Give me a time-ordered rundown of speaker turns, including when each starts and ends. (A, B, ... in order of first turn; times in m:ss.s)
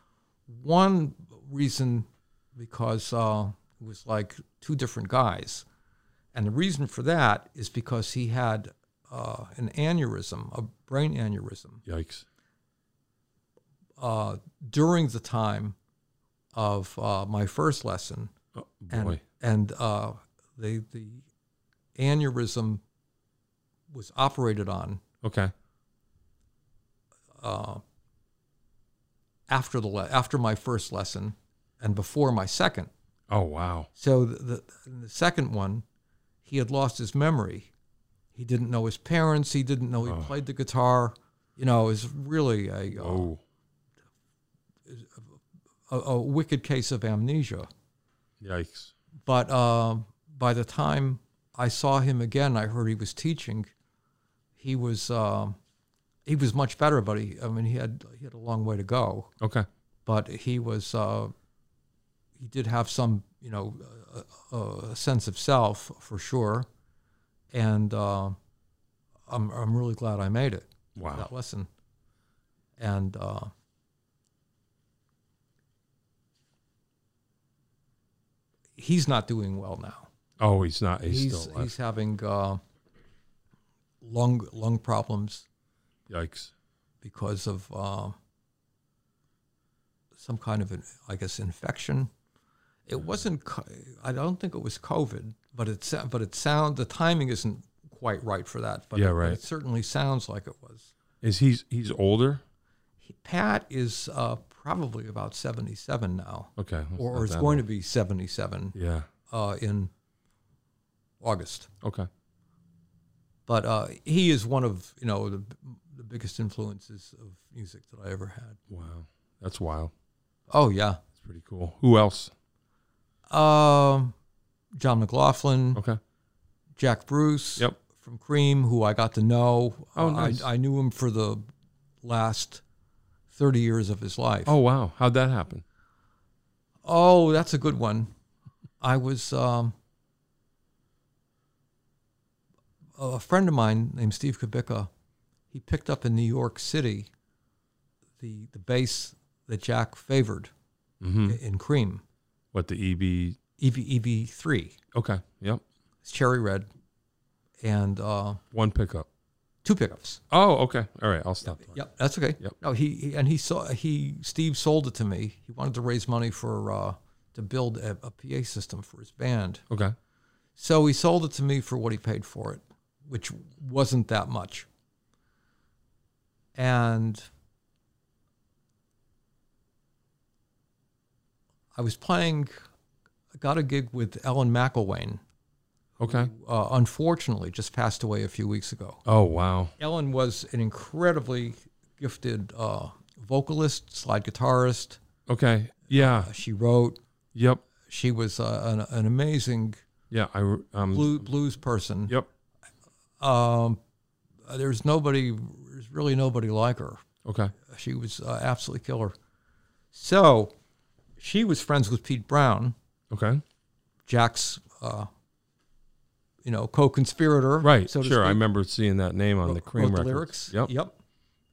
0:00.5-0:05.6 A
0:06.3-0:11.8 A
0:11.8-0:12.2 B
0:14.0-0:15.7 A
0:16.5-0:18.3 A
0:18.5-0:19.2 B
0:18.9-0:21.3 A
0:22.0-0:22.8 A
0:23.9-0:25.0 A
0:25.2-0:25.5 B
0:27.4-0:27.8 A
0:29.5-0:32.9 A
0:33.3-0:33.9 B
0:34.0-0:35.8 A
0:36.4-0:37.7 A
0:38.3-0:43.3 A
0:40.0-0:40.3 B
0:43.0-0:43.4 B
0:44.9-0:45.4 A
0:45.9-0:47.7 A
0:48.4-0:48.9 B
0:49.2-0:53.7 A
0:54.6-0:55.6 A
0:56.3-0:59.3 A
0:59.4-0:59.7 B
1:00.0-1:01.3 A
1:02.4-1:06.7 A
1:07.5-1:08.4 A
1:09.3-1:11.7 A
1:11.0-1:11.3 B
1:12.8-1:13.5 A
1:18.8-1:20.1 A
1:20.4-1:21.7 B
1:21.0-1:22.6 A
1:24.0-1:25.4 A
1:26.1-1:26.5 B
1:27.0-1:28.2 A
1:30.2-1:32.1 A
1:32.9-1:40.9 A
1:38.9-1:39.4 B
1:41.2-1:42.4 B
1:43.0-1:48.7 A
1:46.6-1:47.6 B
1:48.7-1:49.1 B
1:49.3-1:49.9 A
1:51.2-1:51.7 A
1:51.8-1:52.1 B
1:53.5-1:58.6 A
1:58.7-1:59.9 B
2:00.5-2:01.0 A
2:01.2-2:02.3 B
2:03.3-2:04.1 A
2:04.8-2:05.8 A
2:05.7-2:06.0 B
2:06.8-2:11.4 A
2:10.0-2:10.5 B
2:12.0-2:12.6 A
2:13.3-2:14.6 A
2:14.4-2:15.6 B
2:16.8-2:18.1 A
2:18.8-2:19.7 A
2:23.0-2:24.9 A
2:25.5-2:27.1 A
2:28.2-2:30.5 A
2:31.0-2:31.4 B
2:31.2-2:32.0 A
2:32.5-2:33.4 B
2:33.6-2:34.8 A
2:34.9-2:35.6 B
2:36.0-2:36.7 A
2:37.6-2:38.4 A
2:38.5-2:39.1 B
2:39.6-2:40.2 A
2:40.3-2:41.8 B
2:41.4-2:49.6 A
2:49.7-2:49.9 B
2:50.6-2:54.7 A
2:56.6-2:57.3 A
3:01.7-3:02.6 A
3:03.3-3:05.2 A
3:06.0-3:09.0 A
3:06.0-3:06.3 B
3:09.0-3:09.7 B
3:09.8-3:15.0 A
3:15.3-3:16.3 B
3:15.9-3:17.0 A
3:17.3-3:17.6 B
3:17.8-3:19.8 A
3:20.1-3:21.2 B
3:20.9-3:22.1 A
3:23.2-3:23.8 A
3:24.5-3:27.0 A
3:27.2-3:27.5 B
3:27.6-3:29.1 A
3:29.9-3:30.5 A
3:31.2-3:32.7 A
3:33.1-3:33.4 B
3:34.0-3:35.1 A
3:36.4-3:38.4 A
3:37.6-3:40.7 B
3:39.4-3:41.0 A